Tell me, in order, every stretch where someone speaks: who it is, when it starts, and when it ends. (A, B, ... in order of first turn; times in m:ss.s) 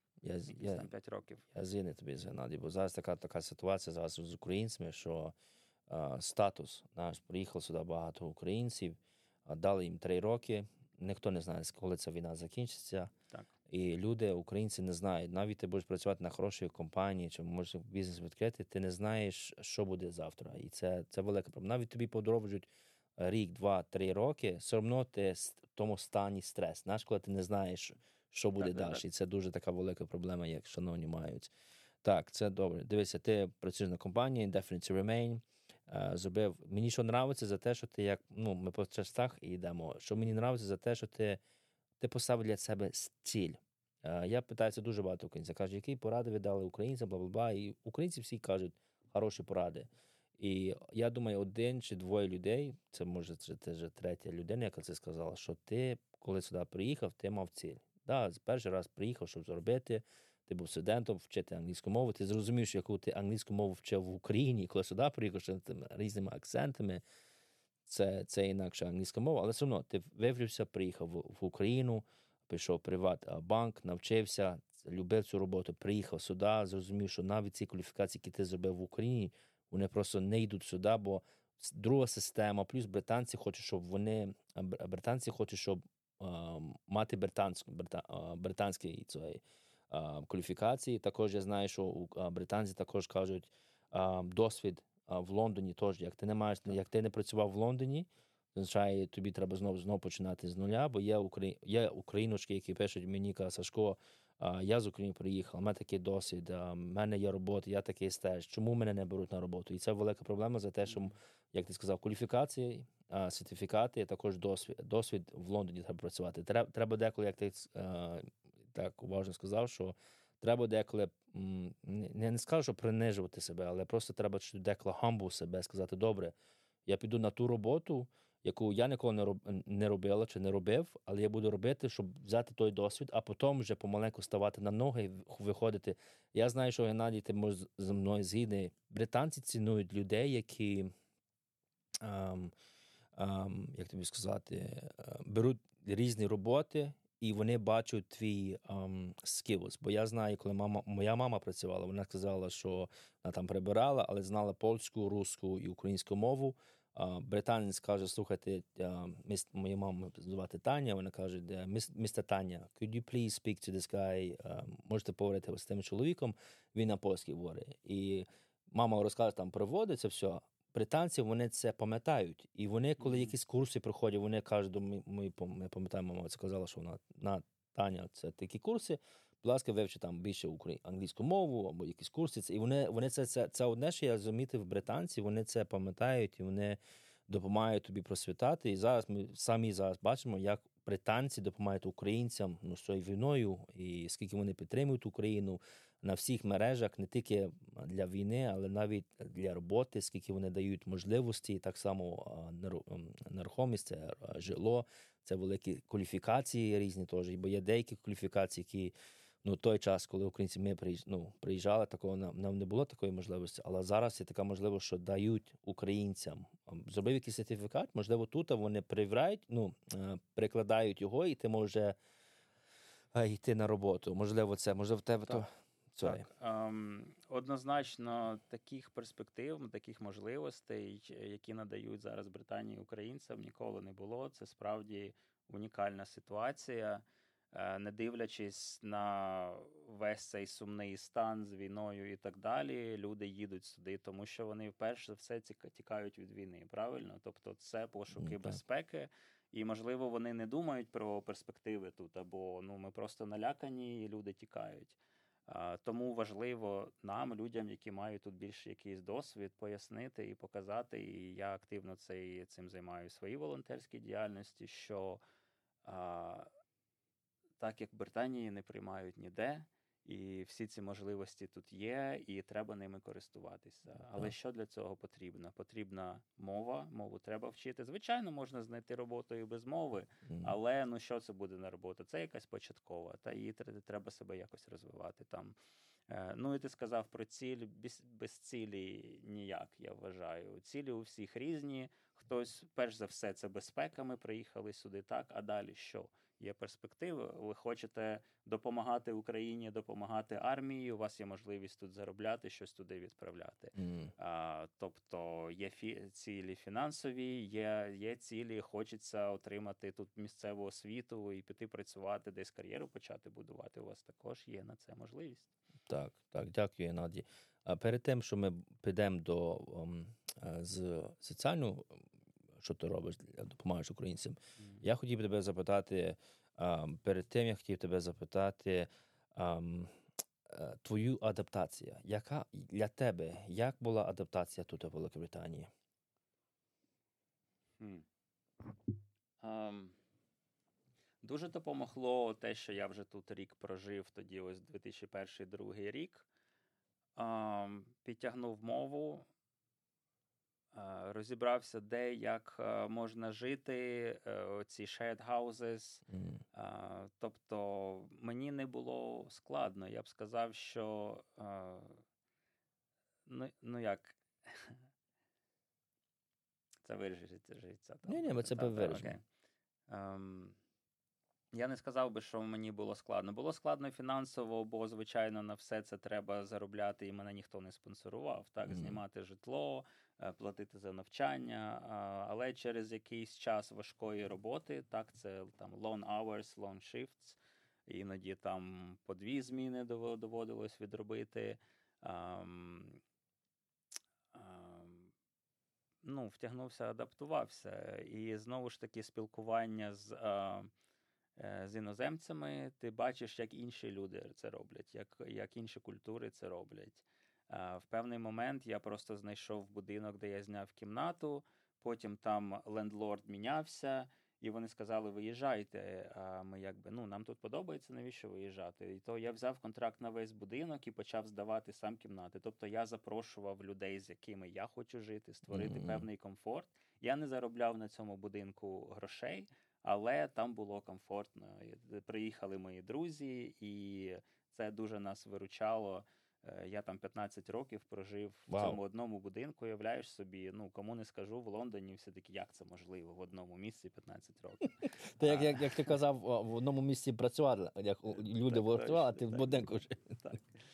0:00.2-0:00.9 A
0:00.5-0:01.4 B
0:01.5-0:05.4 A
0:05.9-0:13.1 A
0:13.7-0:31.5 A
0:28.6-0:29.0 B
0:32.0-0:41.4 A
0:42.0-1:07.0 A
1:07.9-2:06.3 A
1:50.9-1:51.2 B
2:06.9-2:20.9 A
2:22.0-2:22.5 A
2:23.2-3:42.0 A
2:53.0-2:53.3 B
3:43.1-3:46.3 A
3:46.0-4:15.0 B
4:08.2-4:08.6 A
4:15.5-4:25.2 B
4:25.8-4:26.5 B
4:27.6-4:45.6 B
4:40.3-4:40.5 A
4:46.1-5:15.5 B
5:03.8-5:04.1 A
5:15.9-5:22.0 A
5:22.6-5:29.9 A
5:24.6-5:24.8 B
5:30.5-5:35.7 A
5:37.8-5:38.1 B
5:39.4-5:40.0 B
5:41.2-5:46.3 B
5:47.2-5:49.3 B
5:50.7-6:02.0 B
5:56.1-5:56.4 A
6:03.3-6:04.8 B
6:06.8-6:09.2 B
6:08.1-6:09.1 A
6:09.9-6:10.6 B
6:11.5-6:33.0 B
6:18.7-6:19.0 A
6:34.3-6:35.1 B
6:36.0-6:40.7 B
6:41.4-7:25.9 B
7:05.5-7:06.1 A
7:18.5-7:18.8 A
7:25.0-7:30.4 A
7:28.2-7:30.4 B